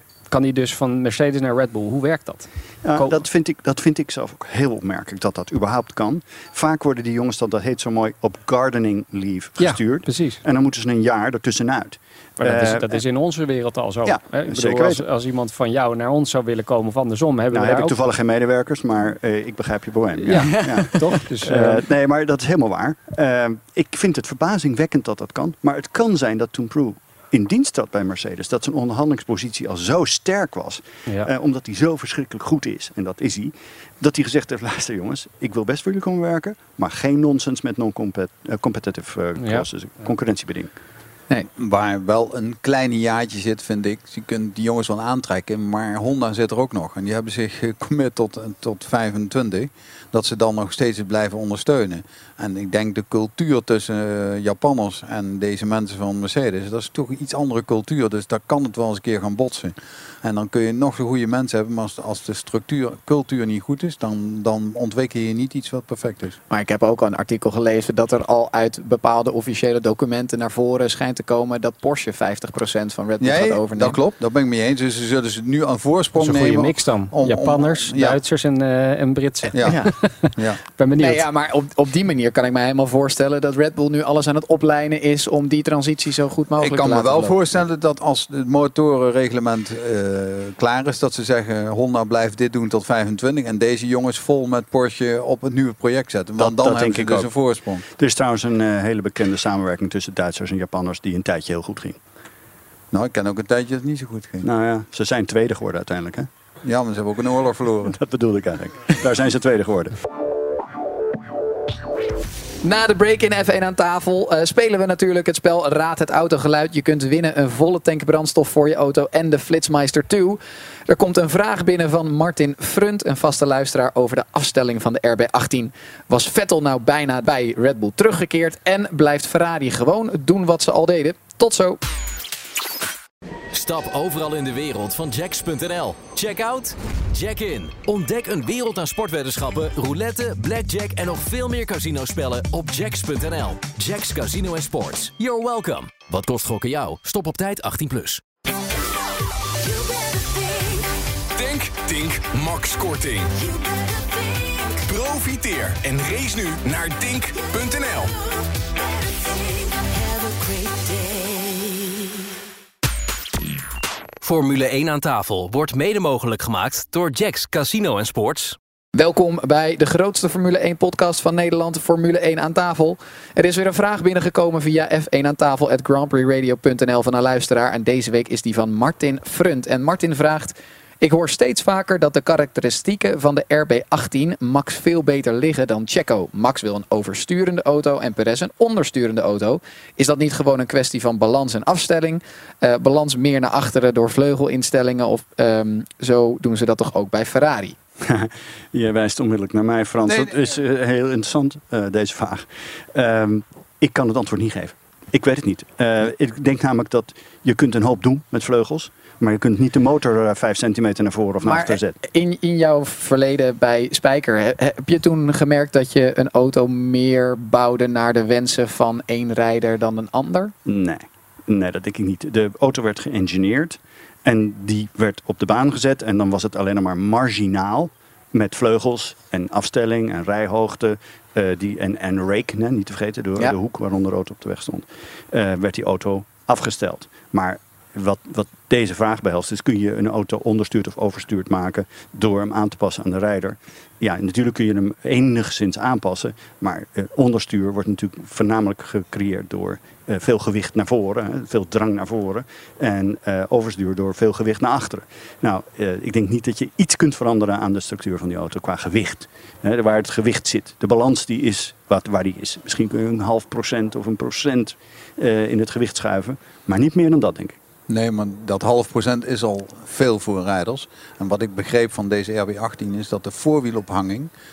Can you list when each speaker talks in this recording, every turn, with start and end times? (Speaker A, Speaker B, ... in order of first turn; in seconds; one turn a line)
Speaker A: 0.3-3.2
Speaker B: 2.8-13.0
Speaker A: 9.6-10.4
Speaker A: 12.4-18.0
Speaker B: 14.0-15.0
Speaker B: 17.5-40.7
Speaker A: 20.3-21.8
Speaker A: 39.4-39.6
Speaker C: 41.5-66.4
Speaker D: 66.5-74.0
Speaker C: 73.2-78.2
Speaker A: 76.2-81.2
Speaker C: 79.5-80.6
Speaker D: 79.6-79.9
Speaker D: 81.0-87.3
Speaker C: 86.6-97.8
Speaker B: 96.4-97.3
Speaker B: 97.9-102.0
Speaker C: 102.9-104.5
Speaker B: 104.4-106.3
Speaker C: 106.6-108.0
Speaker B: 107.8-110.0
Speaker D: 112.6-131.8
Speaker E: 133.5-148.2
Speaker F: 151.3-153.4
Speaker F: 154.8-158.2
Speaker E: 159.7-161.8
Speaker E: 164.2-168.6
Speaker D: 168.9-197.8
Speaker B: 198.0-212.0
Speaker D: 211.4-220.5
Speaker B: 220.6-267.6
Speaker C: 267.9-274.3